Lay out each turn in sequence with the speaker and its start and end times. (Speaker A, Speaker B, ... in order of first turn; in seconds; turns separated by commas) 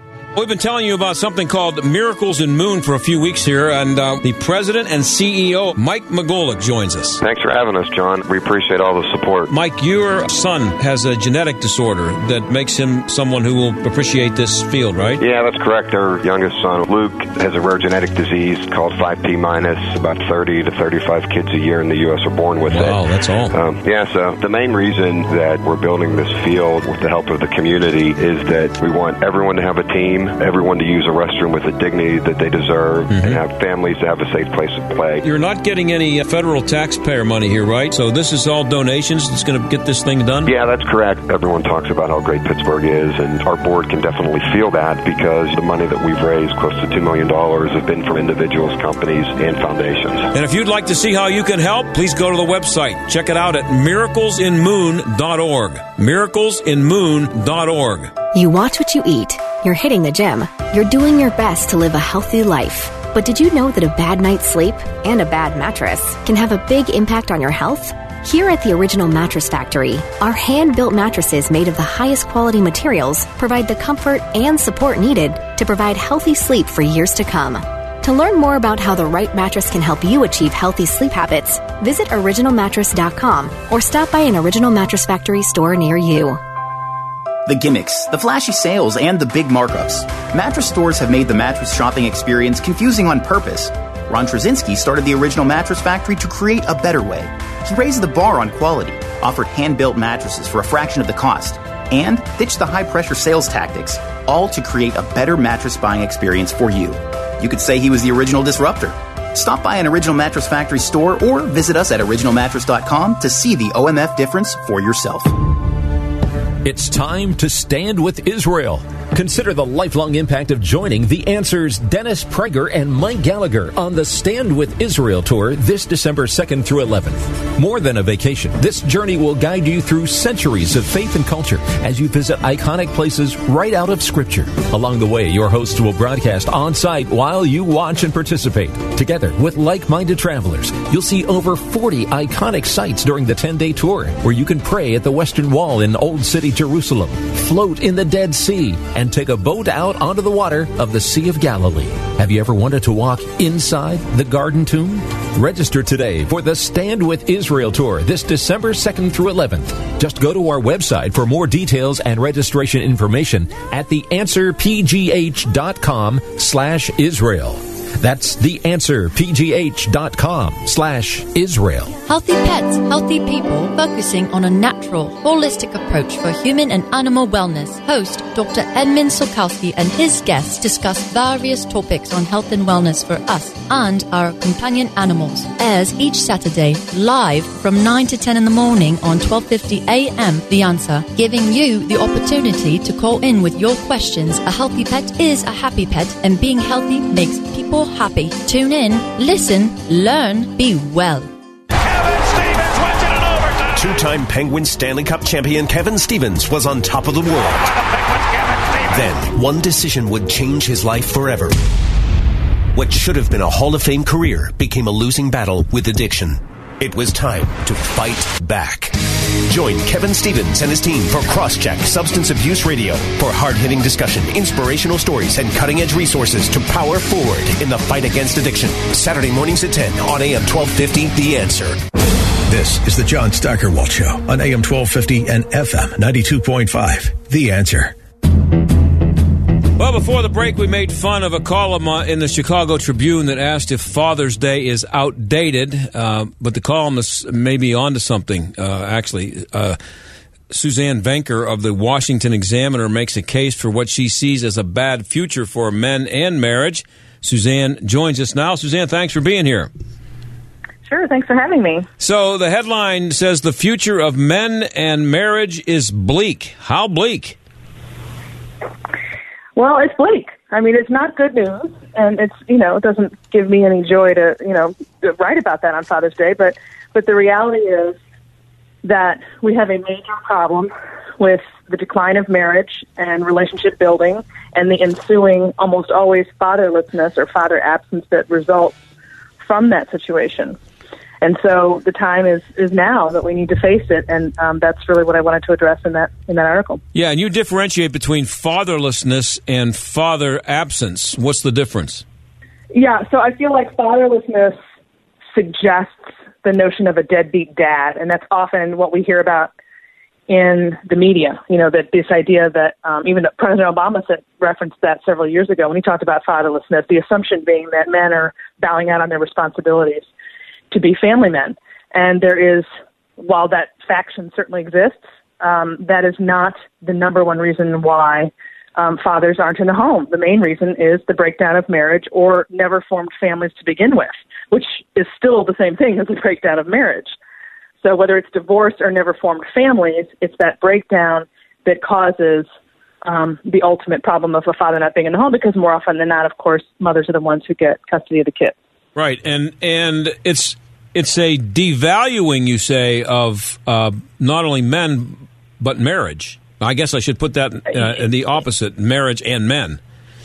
Speaker A: 0.3-7.2, Speaker B: 7.2-9.5, Speaker A: 9.5-15.2, Speaker B: 15.2-23.0, Speaker A: 22.7-23.5, Speaker B: 23.5-35.2, Speaker A: 33.1-33.4, Speaker A: 35.2-40.5, Speaker B: 40.4-50.3, Speaker A: 50.3-58.1, Speaker C: 58.3-86.4, Speaker D: 87.5-115.3, Speaker E: 116.6-172.0, Speaker F: 172.1-201.3, Speaker G: 203.7-207.7, Speaker G: 208.9-211.6, Speaker G: 212.7-231.8, Speaker H: 232.5-237.9, Speaker A: 239.8-249.8, Speaker A: 250.5-259.7, Speaker I: 260.9-261.9, Speaker A: 262.0-267.4, Speaker I: 269.6-278.0, Speaker I: 278.8-288.8, Speaker I: 289.4-290.6, Speaker I: 291.2-296.8, Speaker A: 296.9-302.0, Speaker I: 302.7-304.6, Speaker I: 305.3-309.5, Speaker I: 310.3-320.1, Speaker I: 320.7-322.7, Speaker I: 323.2-337.1, Speaker I: 337.8-342.5, Speaker I: 343.0-348.5, Speaker A: 348.9-359.8